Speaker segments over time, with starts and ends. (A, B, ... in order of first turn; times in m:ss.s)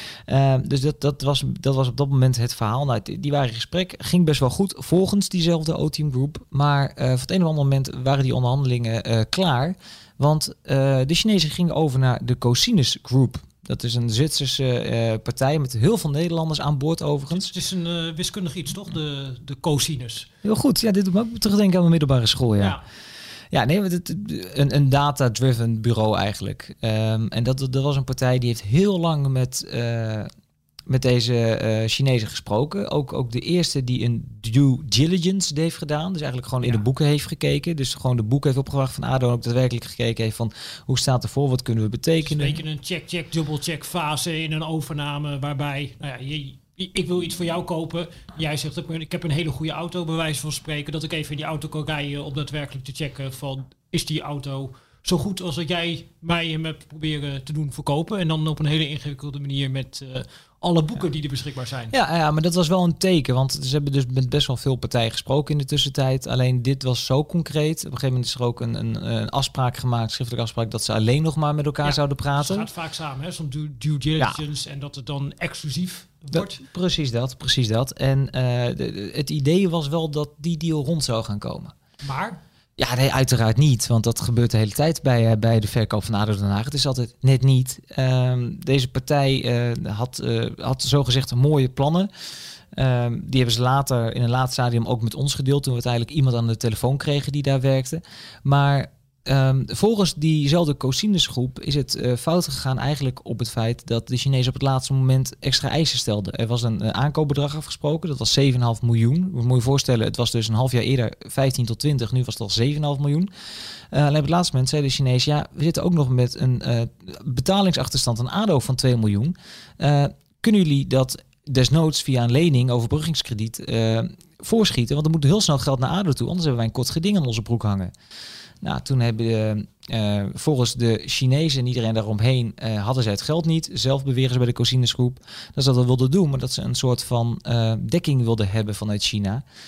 0:00.3-0:17.5 A
0:17.3-0:20.3 B
0:20.4-0:22.8 A
0:23.5-0:30.3 A
0:30.9-0:42.6 A
0:42.2-1:01.9 B
1:01.9-1:12.7 A
1:11.8-1:16.6 B
1:16.3-1:21.7 A
1:22.0-1:22.4 B
1:22.8-1:32.1 A
1:32.7-1:53.3 A
1:53.9-2:07.9 A
2:08.6-2:19.4 A